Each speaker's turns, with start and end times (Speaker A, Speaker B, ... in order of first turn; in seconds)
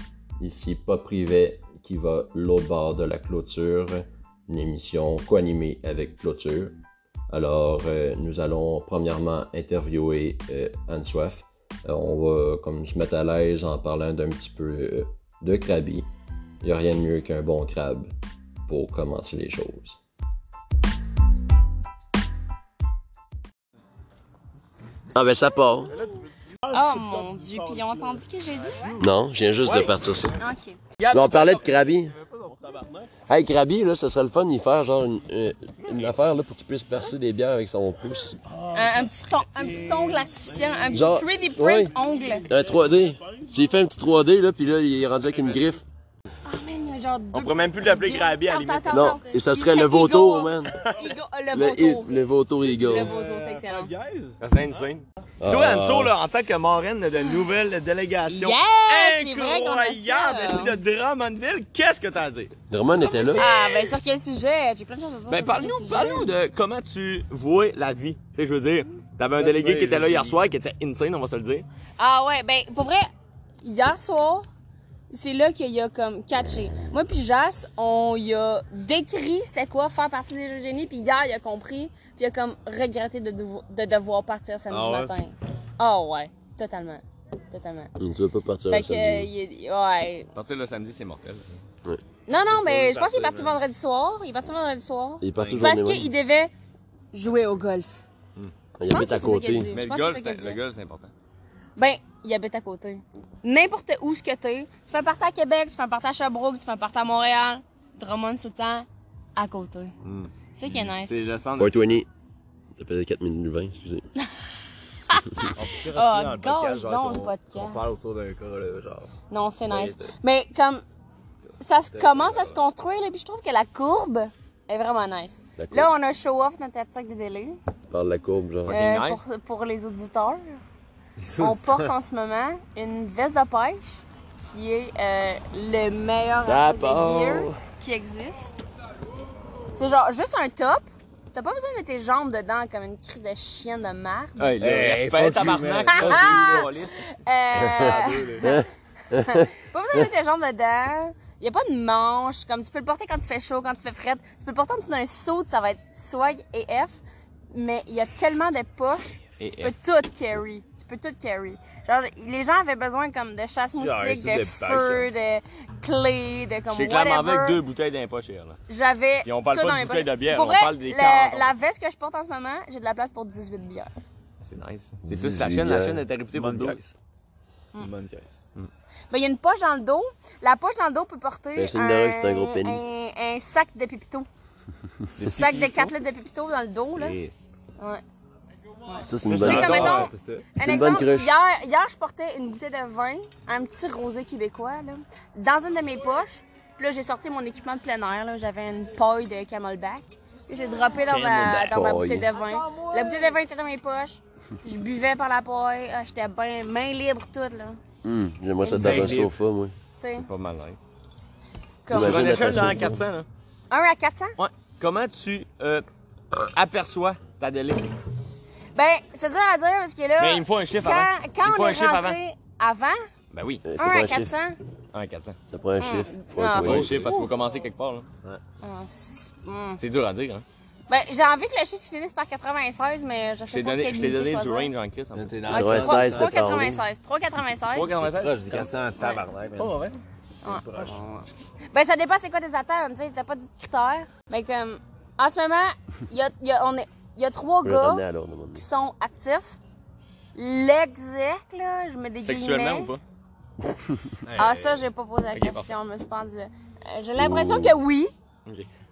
Speaker A: 0.4-6.8, 7.3-16.1, 16.6-18.1, 18.7-20.0, 25.1-26.1, 28.9-30.4, 31.1-32.1, 33.2-38.4, 40.9-41.9, 42.5-45.8, 48.9-50.8, 51.5-53.1, 55.4-56.1, 62.7-63.5, 88.0-89.3, 95.2-96.1, 98.8-99.7, 111.5-112.1, 112.7-114.1, 125.6-125.9, 127.9-128.8, 136.4-137.6, 147.6-149.5, 175.0-176.0, 181.5-182.8, 189.0-190.1, 190.6-191.3, 201.1-202.3, 208.0-209.7, 211.9-213.0, 223.6-224.3, 225.5-227.1, 235.5-236.8, 247.6-248.6, 257.2-257.8
Speaker B: 26.7-29.0, 30.4-30.8, 38.7-42.5, 46.4-52.1, 52.7-53.9, 58.3-60.8, 63.3-66.3, 72.0-73.0, 73.6-74.5, 75.1-87.9, 88.7-90.3, 92.3-96.5, 97.1-98.0, 98.8-100.6, 101.8-109.9, 110.5-111.2, 115.1-117.8, 119.3-120.8, 121.6-127.6, 128.7-130.6, 131.3-138.6, 139.7-144.6, 145.9-167.6, 168.7-173.9, 179.1-184.2, 185.2-187.2, 188.9-207.8, 208.6-209.2, 210.0-210.3, 211.8-212.3, 213.7-214.3, 218.7-223.0, 223.8-224.6, 225.8-226.9, 228.6-229.8, 230.9-234.7, 235.5-238.0, 238.9-239.2, 240.4-249.6, 250.3-252.9, 254.3-258.1
Speaker C: 31.0-31.7, 47.3-49.1, 54.4-62.5, 65.3-71.7, 90.3-91.6, 99.7-101.1, 110.0-112.0, 128.6-129.2, 144.4-147.1, 159.4-159.7, 166.7-168.6, 169.2-171.6, 174.4-176.8, 185.2-185.9, 186.9-187.4, 189.4-190.1, 208.8-209.3, 210.1-210.8, 211.9-213.3, 214.4-217.9, 220.2-222.2, 223.3-223.6, 224.9-225.4, 226.6-228.1, 229.8-230.4, 233.5-235.4, 237.7-238.7, 239.6-240.0, 252.2-253.0, 255.3-255.7
Speaker D: 32.5-32.9, 53.1-54.4, 69.3-70.4, 84.7-85.1, 92.5-93.6, 95.3-95.7, 115.5-119.1, 119.7-120.1, 121.9-122.6, 131.2-131.8, 144.6-146.7, 147.6-148.5, 163.8-165.1, 176.3-176.9, 177.8-178.3, 189.2-190.4, 202.8-203.3, 208.7-209.3, 226.7-227.3, 235.1-236.4, 238.1-239.8, 240.4-241.0, 254.2-254.8